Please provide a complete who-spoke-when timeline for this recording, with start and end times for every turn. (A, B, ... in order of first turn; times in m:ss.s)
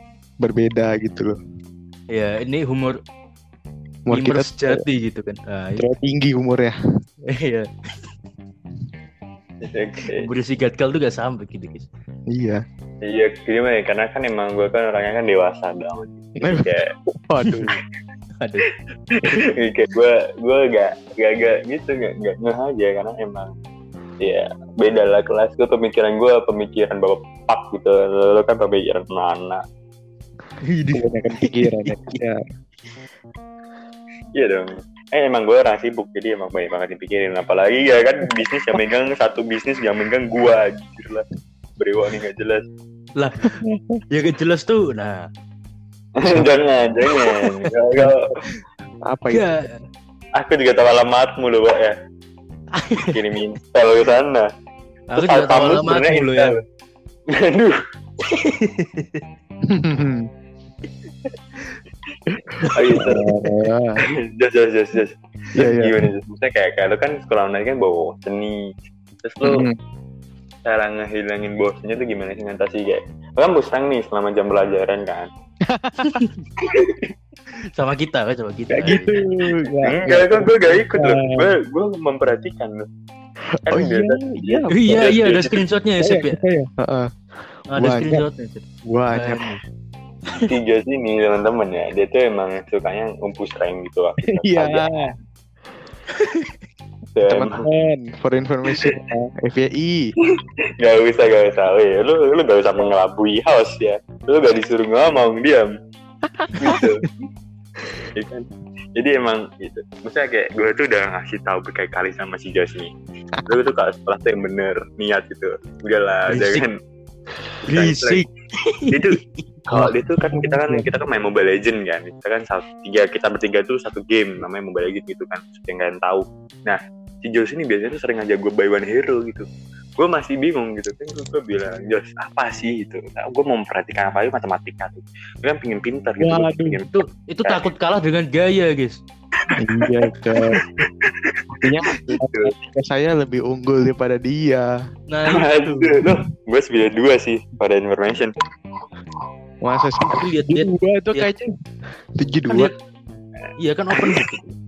0:00.4-0:01.4 A
0:02.1-0:03.0 B
0:04.1-0:04.8 A
0:04.1-0:05.8 B
0:05.8-0:06.8 A
0:07.3-0:07.7 B
0:09.6-0:10.3 C
0:10.1-0:11.9 B
0:12.3-0:12.6 A
0:13.0-0:16.9 C
0:16.4-0:16.8 A
0:17.2-0:17.8 A
0:18.4-0:18.7 B
0:19.1-0:23.5 C
0:24.2-0:29.6 C
0:30.6-0:31.9 B
0:30.9-0:32.4 A
0:34.3-0:41.2 C
0:41.8-0:42.6 C
0:43.2-0:45.3 B
0:43.4-0:44.0 A
0:46.2-0:48.3 C
0:47.1-0:47.7 B
0:49.0-0:49.6 A
0:49.3-0:49.8 B
0:50.3-0:52.0 C
0:52.7-0:53.2 B
0:53.1-0:54.5 C
0:55.1-0:56.6 B
0:55.2-0:56.6 C
0:57.3-0:57.8 C
0:58.3-0:59.2 B
0:59.6-1:00.3 A
1:02.6-1:03.0 B
1:02.7-1:03.3 C
1:03.0-1:04.0 A
1:04.1-1:08.7 C
1:05.5-1:05.9 A
1:09.2-1:09.7 C
1:09.4-1:09.8 A
1:10.6-1:15.3 C
1:15.6-1:16.2 A
1:16.0-1:16.4 B
1:16.6-1:17.1 C
1:17.6-1:19.2 B
1:18.7-1:21.5 A
1:19.8-1:22.8 C
1:23.6-1:25.1 A
1:23.7-1:25.6 C
1:24.7-1:26.4 B
1:26.0-1:28.2 A
1:27.7-1:29.6 B
1:28.8-1:29.6 A
1:30.4-1:35.1 C
1:34.3-1:35.1 A
1:36.1-1:36.5 B
1:37.1-1:37.6 C
1:37.3-1:40.1 A
1:40.8-1:45.7 C
1:46.2-1:46.6 A
1:46.6-1:47.1 C
1:48.1-1:52.9 C
1:53.4-1:56.8 C
1:56.3-1:56.6 B
1:57.7-1:59.4 B
1:57.7-1:58.2 C
1:58.9-2:09.4 C
1:59.7-2:00.9 A
2:10.0-2:17.6 C
2:16.2-2:16.8 A
2:16.9-2:19.0 B
2:19.4-2:22.5 C
2:19.6-2:20.6 A
2:21.6-2:24.7 A
2:25.1-2:25.9 B
2:25.3-2:28.3 C
2:29.6-2:31.5 A
2:30.1-2:31.3 B
2:32.2-2:32.7 A
2:33.6-2:34.5 B